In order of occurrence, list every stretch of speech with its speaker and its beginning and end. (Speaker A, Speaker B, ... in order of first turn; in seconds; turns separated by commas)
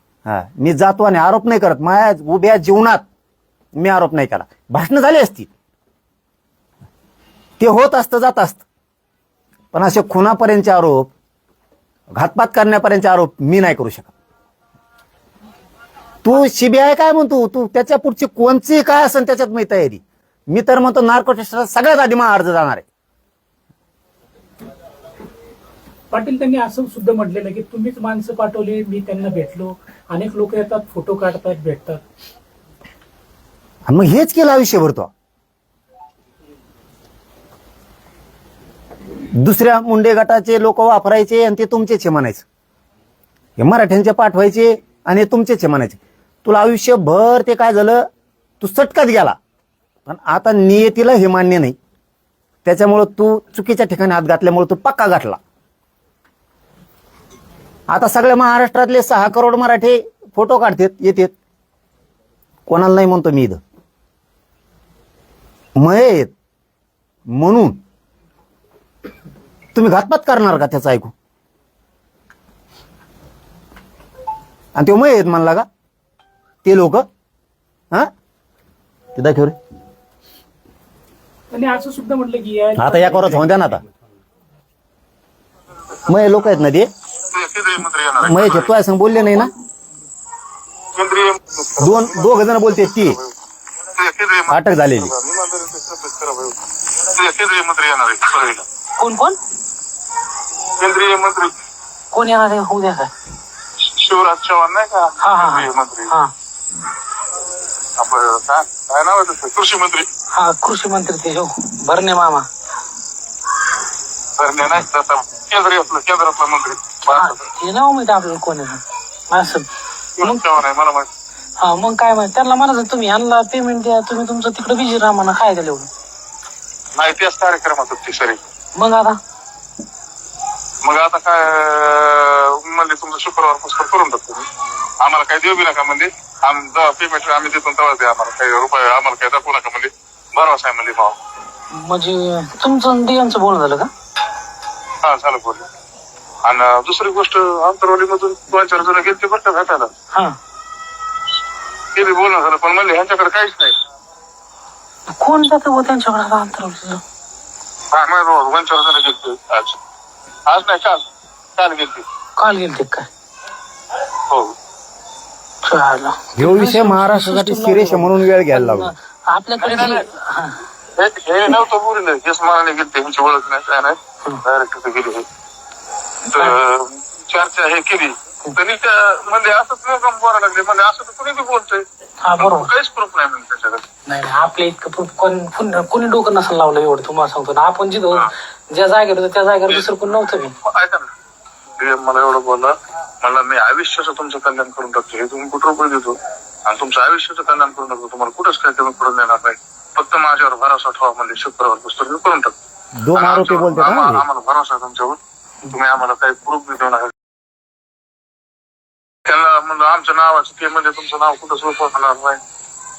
Speaker A: 0.3-3.0, Speaker A: 3.8-5.5, Speaker A: 7.6-8.6, Speaker A: 9.7-11.1, Speaker A: 12.2-14.1, Speaker A: 16.2-22.9, Speaker B: 26.1-32.0, Speaker A: 33.9-35.1, Speaker A: 39.4-42.5, Speaker A: 43.6-48.1, Speaker A: 48.6-49.4, Speaker A: 50.1-51.8, Speaker A: 52.6-55.4, Speaker A: 57.9-61.3, Speaker A: 62.7-63.6, Speaker A: 65.8-66.3, Speaker A: 67.3-67.8, Speaker A: 69.8-71.1, Speaker A: 74.8-75.7, Speaker A: 76.6-77.1, Speaker A: 79.2-79.6, Speaker B: 81.5-83.7, Speaker A: 82.8-83.8, Speaker A: 86.1-86.9, Speaker C: 87.3-88.7, Speaker A: 88.2-89.5, Speaker C: 91.0-93.3, Speaker A: 91.8-93.2, Speaker C: 94.0-96.6, Speaker A: 94.5-95.1, Speaker C: 97.2-98.7, Speaker D: 99.0-99.4, Speaker C: 100.8-101.5, Speaker D: 102.1-103.1, Speaker C: 103.8-106.1, Speaker D: 105.2-106.3, Speaker C: 108.0-110.1, Speaker D: 110.3-112.5, Speaker C: 114.4-117.4, Speaker D: 117.1-119.7, Speaker C: 120.2-121.1, Speaker D: 121.6-125.9, Speaker C: 127.0-128.4, Speaker D: 128.8-129.2, Speaker C: 130.8-134.5, Speaker C: 135.0-141.2, Speaker D: 141.8-143.9, Speaker C: 145.0-145.7, Speaker C: 146.4-149.9, Speaker C: 151.9-153.8, Speaker D: 155.1-157.0, Speaker C: 157.9-159.8, Speaker C: 160.5-161.0, Speaker C: 161.6-162.1, Speaker D: 162.4-163.1, Speaker D: 165.6-170.6, Speaker A: 166.4-168.9, Speaker C: 169.6-170.1, Speaker C: 171.0-175.3, Speaker C: 176.3-181.9, Speaker D: 182.2-182.7, Speaker C: 182.4-183.8, Speaker D: 184.1-190.5, Speaker C: 190.6-191.1, Speaker C: 191.8-202.5, Speaker A: 203.0-204.2, Speaker C: 203.1-205.2, Speaker C: 205.7-207.1, Speaker C: 209.3-212.4